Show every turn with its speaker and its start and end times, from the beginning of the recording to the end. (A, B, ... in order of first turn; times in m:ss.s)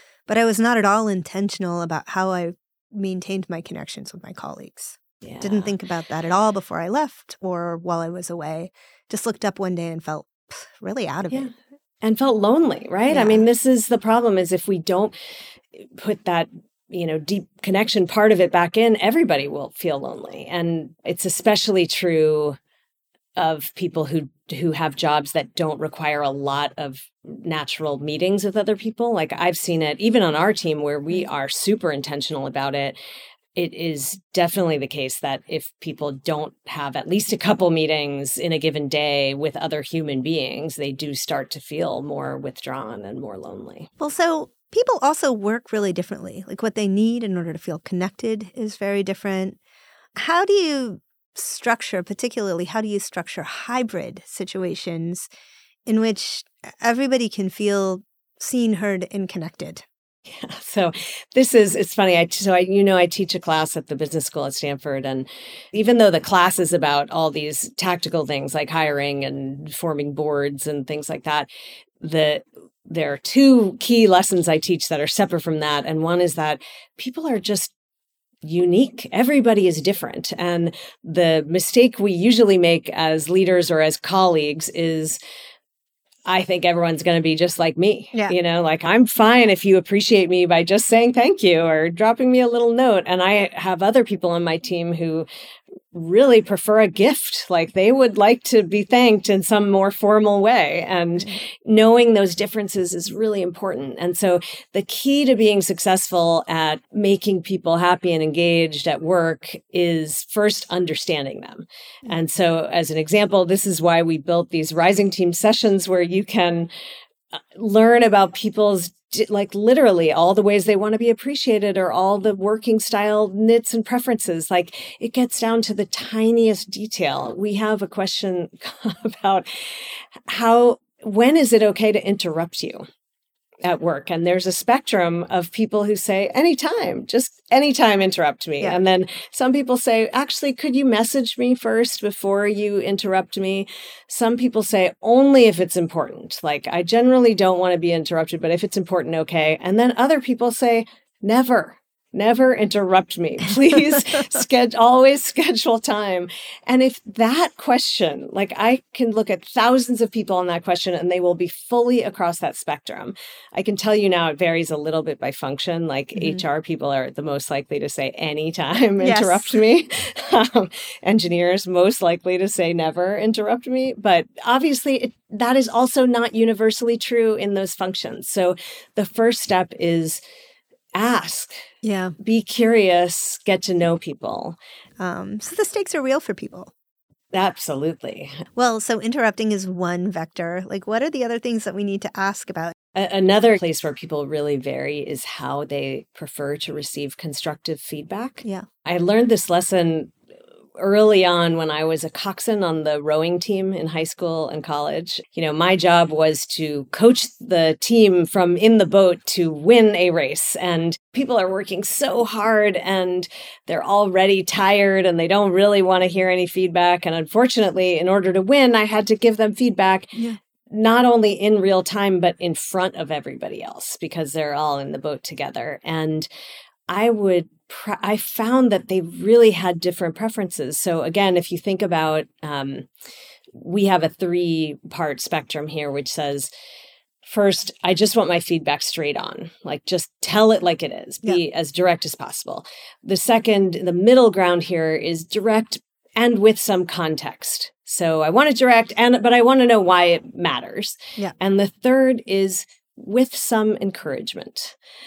0:00.3-0:11.5 A
0:05.2-0:05.7 B
0:11.3-0:15.1 B
0:13.1-0:13.4 A
0:15.8-0:22.6 B
0:23.4-0:33.0 B
0:33.5-0:43.9 B
0:44.0-0:49.6 A
0:50.1-0:55.3 A
0:55.8-0:59.8 A
1:00.3-1:11.5 B
1:12.0-1:17.7 B
1:18.4-1:25.2 B
1:26.2-1:35.2 B
1:35.9-1:56.7 B
1:57.3-2:12.8 B
2:13.6-3:00.2 B
2:46.2-2:46.4 A
2:49.0-2:49.6 A
3:01.0-3:01.5 B
3:01.8-3:02.1 A
3:02.2-3:04.6 B
3:05.0-3:06.7 A
3:07.3-3:08.4 B
3:08.6-3:12.7 A
3:12.9-3:20.1 B
3:20.8-3:40.2 B
3:40.7-3:46.3 B
3:46.9-3:52.9 B
3:53.5-3:56.5 B
3:57.2-4:14.8 B